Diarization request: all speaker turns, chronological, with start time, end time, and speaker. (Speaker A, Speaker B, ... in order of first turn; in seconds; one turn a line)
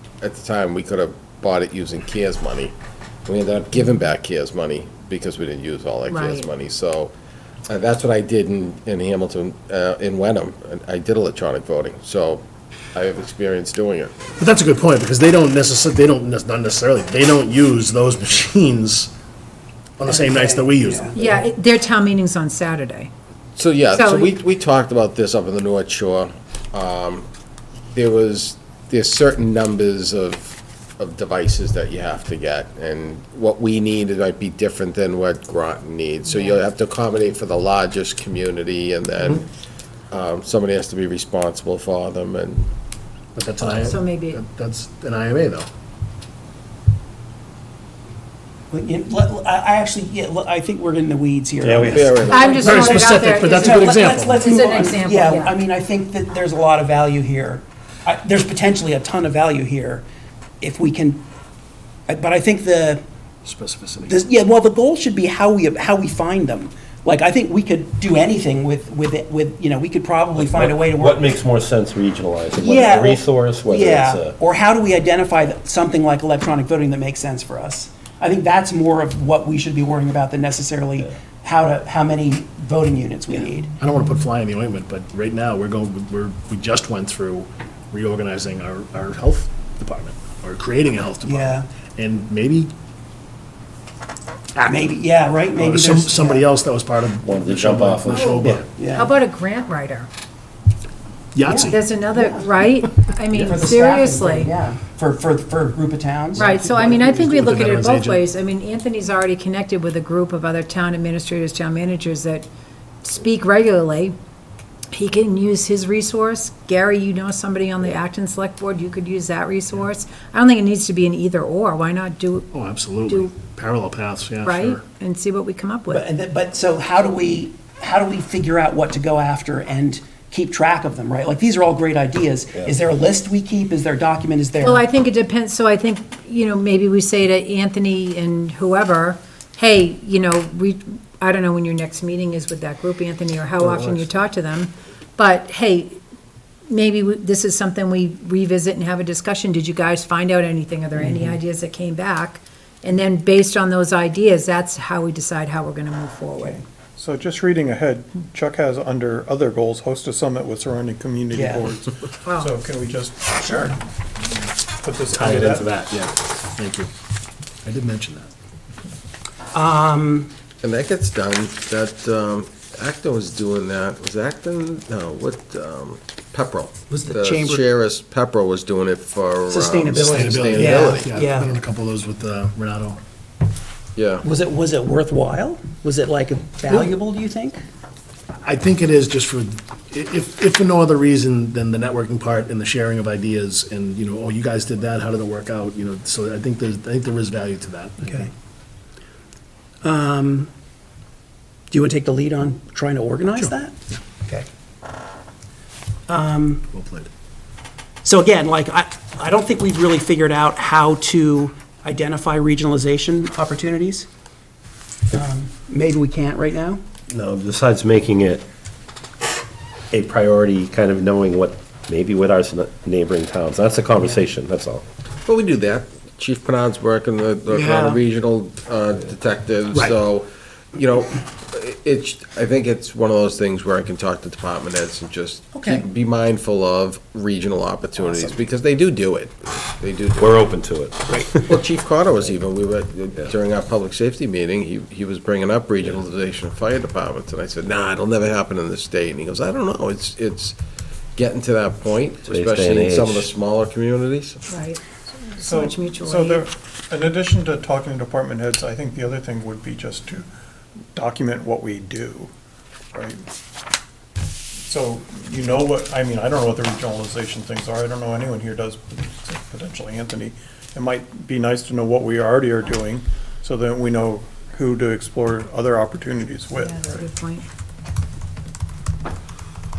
Speaker A: 0.2-2.7
Speaker A: 3.3-7.1
Speaker B: 6.1-6.5
Speaker A: 7.7-14.2
Speaker C: 14.4-19.1
Speaker C: 20.0-21.5
Speaker D: 20.1-21.2
Speaker B: 21.2-23.1
Speaker A: 23.6-27.3
Speaker B: 23.9-24.3
Speaker A: 27.9-39.5
Speaker B: 36.3-36.6
Speaker A: 40.1-42.7
Speaker C: 43.4-45.7
Speaker B: 43.6-44.4
Speaker D: 48.7-60.0
Speaker E: 51.6-52.5
Speaker A: 51.9-52.8
Speaker B: 52.3-55.5
Speaker C: 52.5-54.6
Speaker D: 60.6-61.2
Speaker D: 62.1-63.0
Speaker C: 63.5-64.2
Speaker D: 64.0-71.3
Speaker E: 70.4-74.4
Speaker D: 72.6-83.7
Speaker C: 83.8-92.7
Speaker D: 91.2-91.7
Speaker D: 94.5-96.5
Speaker C: 95.6-98.7
Speaker E: 97.2-98.7
Speaker D: 98.7-99.2
Speaker B: 98.9-100.1
Speaker C: 101.3-101.8
Speaker D: 101.5-102.5
Speaker B: 101.7-104.5
Speaker D: 103.3-106.5
Speaker C: 106.3-108.3
Speaker B: 106.4-112.5
Speaker B: 113.0-114.2
Speaker B: 114.9-122.5
Speaker C: 122.5-124.8
Speaker B: 124.4-126.0
Speaker D: 125.9-134.9
Speaker B: 134.6-146.0
Speaker C: 143.6-144.2
Speaker B: 146.7-156.6
Speaker D: 150.9-151.4
Speaker F: 156.5-163.4
Speaker D: 161.3-161.7
Speaker B: 162.3-162.5
Speaker D: 163.4-163.8
Speaker F: 164.8-165.7
Speaker C: 165.1-166.9
Speaker C: 167.6-168.3
Speaker D: 169.5-170.3
Speaker A: 170.6-181.1
Speaker D: 176.9-177.7
Speaker D: 179.5-181.6
Speaker C: 180.0-183.0
Speaker A: 184.0-184.2
Speaker D: 184.2-187.6
Speaker C: 188.4-198.3
Speaker D: 198.0-198.3
Speaker D: 199.8-200.5
Speaker D: 201.7-204.5
Speaker D: 206.1-206.6
Speaker C: 206.7-207.1
Speaker D: 208.0-214.1
Speaker D: 215.1-216.8
Speaker E: 217.1-218.5
Speaker E: 219.9-224.8
Speaker A: 225.3-240.5
Speaker D: 227.5-228.0
Speaker D: 235.5-235.8
Speaker E: 240.2-241.4
Speaker D: 241.1-241.4
Speaker A: 241.3-250.6
Speaker A: 251.2-254.5
Speaker E: 252.3-253.3
Speaker B: 254.5-254.8
Speaker B: 255.4-256.4
Speaker F: 255.4-260.2
Speaker F: 260.9-262.3
Speaker F: 262.9-263.2
Speaker F: 264.7-277.1
Speaker B: 276.6-277.4